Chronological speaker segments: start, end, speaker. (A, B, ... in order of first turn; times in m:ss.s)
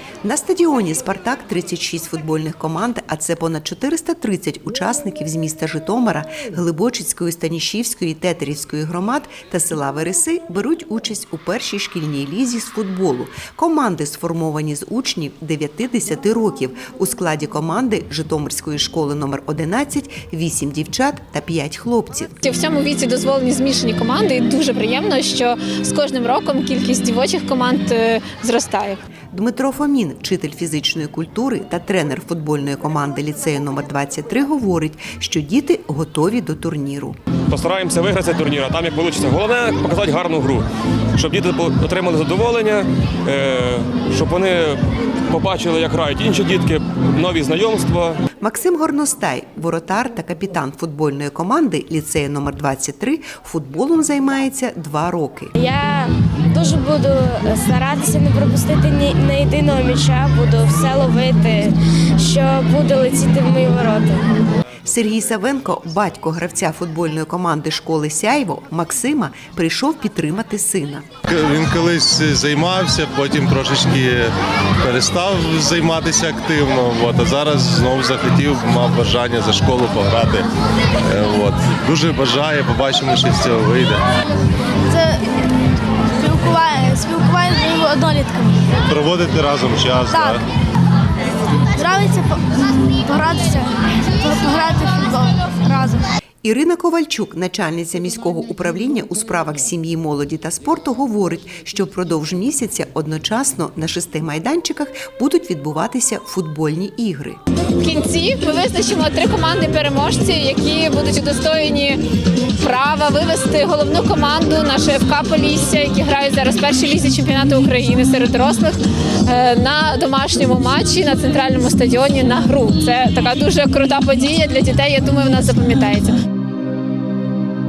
0:00.2-0:22.4 A
0:22.4-0:28.9 B
0:29.3-0:37.2 A
0:37.5-0:40.6 C
0:41.2-0:44.7 C
0:45.3-0:48.1 C
0:48.4-0:55.5 A
0:55.6-0:56.0 D
0:56.6-1:01.6 D
1:02.3-1:04.1 D
1:04.8-1:11.1 A
1:11.4-1:14.2 E
1:14.9-1:20.4 E
1:21.2-1:24.0 E
1:29.2-1:30.4 E
1:36.4-1:47.4 A
1:47.8-1:52.0 B
1:52.6-1:58.8 B
1:59.3-2:06.1 B